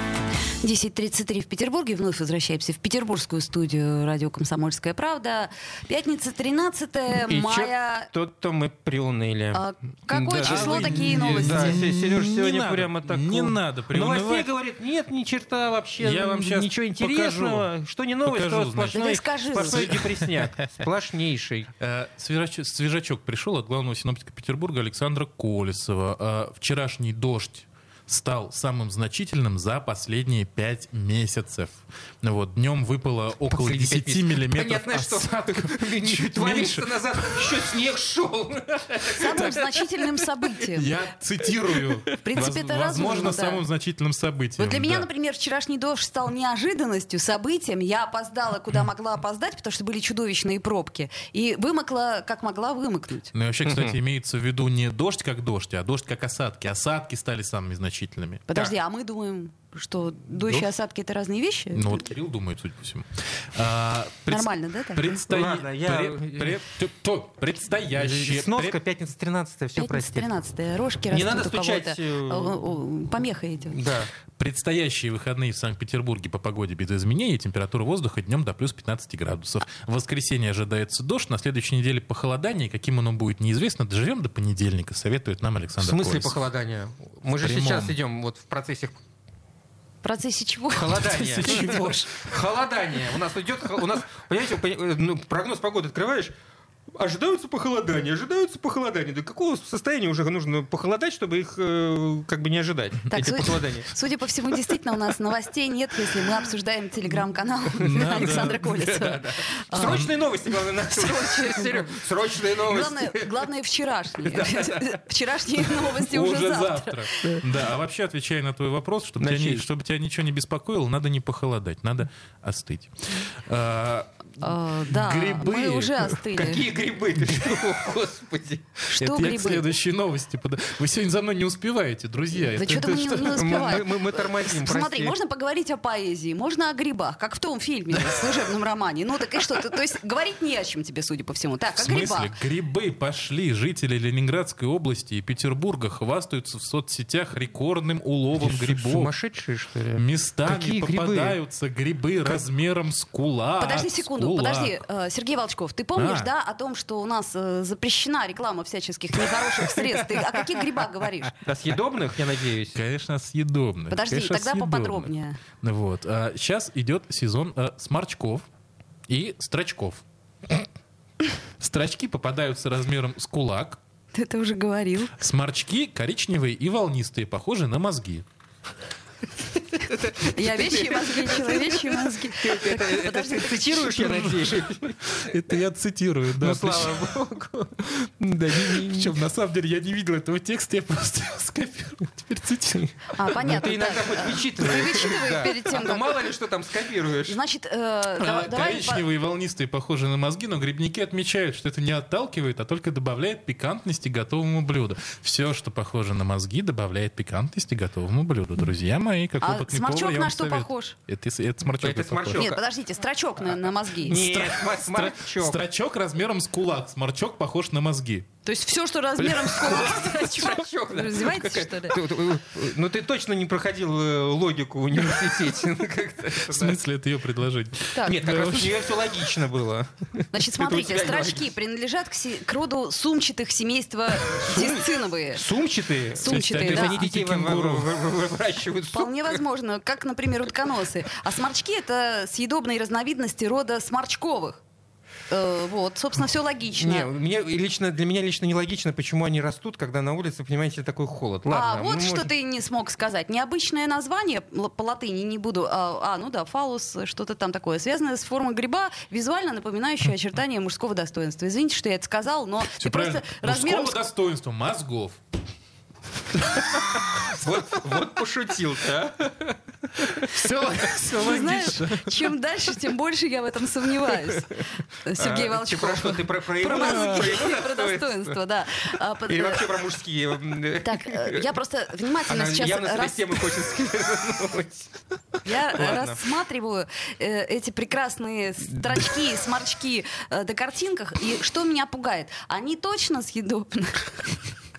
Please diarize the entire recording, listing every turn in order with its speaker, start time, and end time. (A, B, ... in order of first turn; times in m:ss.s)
0:00.6-0:08.1 A
0:07.3-0:21.7 B
0:09.5-0:11.8 A
0:10.4-0:14.5 C
0:16.0-0:17.7 C
0:18.2-0:20.4 C
0:18.9-0:19.9 A
0:21.8-0:37.6 C
0:33.5-0:39.6 B
0:39.2-0:40.9 A
0:39.2-0:39.7 C
0:40.6-0:45.1 C
0:42.2-0:43.6 A
0:44.6-0:53.3 A
0:53.3-0:58.5 C
0:53.6-0:53.9 B
0:58.5-1:02.0 A
1:01.7-1:08.8 C
1:04.3-1:05.1 A
1:05.3-1:06.6 B
1:08.0-1:10.3 B
1:09.8-1:13.8 A
1:11.1-1:12.6 B
1:13.7-1:14.1 B
1:14.4-1:26.4 C
1:25.8-1:29.0 B
1:27.3-1:28.0 C
1:30.0-1:31.7 A
1:30.7-1:36.3 B
1:30.9-1:32.3 C
1:36.9-1:43.9 B
1:43.1-1:50.1 A
1:47.8-1:48.6 C
1:48.2-1:53.3 B
1:49.8-1:50.1 C
1:50.9-1:52.0 A
1:52.6-1:57.4 A
1:54.2-1:54.9 B
1:56.0-2:06.5 C
1:59.2-1:59.6 B
2:04.4-2:06.6 A
2:06.3-2:08.8 B
2:07.1-2:07.6 C
2:08.9-2:09.6 A
2:09.0-2:13.8 C
2:12.4-2:22.3 A
2:13.3-2:15.2 B
2:21.8-2:29.1 C
2:28.4-2:31.4 B
2:29.9-2:34.8 C
2:33.6-2:41.4 A
2:36.0-2:36.3 C
2:41.4-2:42.8 B
2:42.7-2:48.4 C
2:43.9-2:45.4 A
2:49.1-2:50.0 C
2:51.6-2:53.8 C
2:54.1-2:55.2 A
2:55.2-2:58.2 C
2:59.7-3:05.0 B
3:00.2-3:04.1 A
3:03.8-3:07.1 C
3:06.4-3:09.2 B
3:08.6-3:13.1 C
3:13.1-3:16.3 A
3:13.2-3:17.4 B
3:17.2-3:19.0 A
3:18.2-3:32.4 C
3:29.4-3:30.9 A
3:31.8-3:32.6 B
3:32.4-3:34.2 A
3:34.0-3:35.6 B
3:34.1-3:38.3 C
3:38.4-3:42.0 A
3:39.2-3:46.8 B
3:46.3-3:49.1 C
3:48.0-3:51.4 B
3:50.3-3:55.4 A
3:54.3-3:59.4 B
3:56.1-3:57.0 A
3:56.2-3:57.9 C
3:58.9-4:04.6 A
4:05.3-4:07.1 A
4:06.8-4:12.3 B
4:11.5-4:24.0 A
4:22.8-4:25.2 C
4:27.3-4:31.7 B
4:30.3-4:32.1 C
4:31.1-4:39.7 A
4:35.2-4:38.4 B
4:39.3-4:41.5 B
4:40.8-4:43.4 A
4:42.3-4:44.9 B
4:45.4-4:54.4 A
4:45.7-4:46.2 B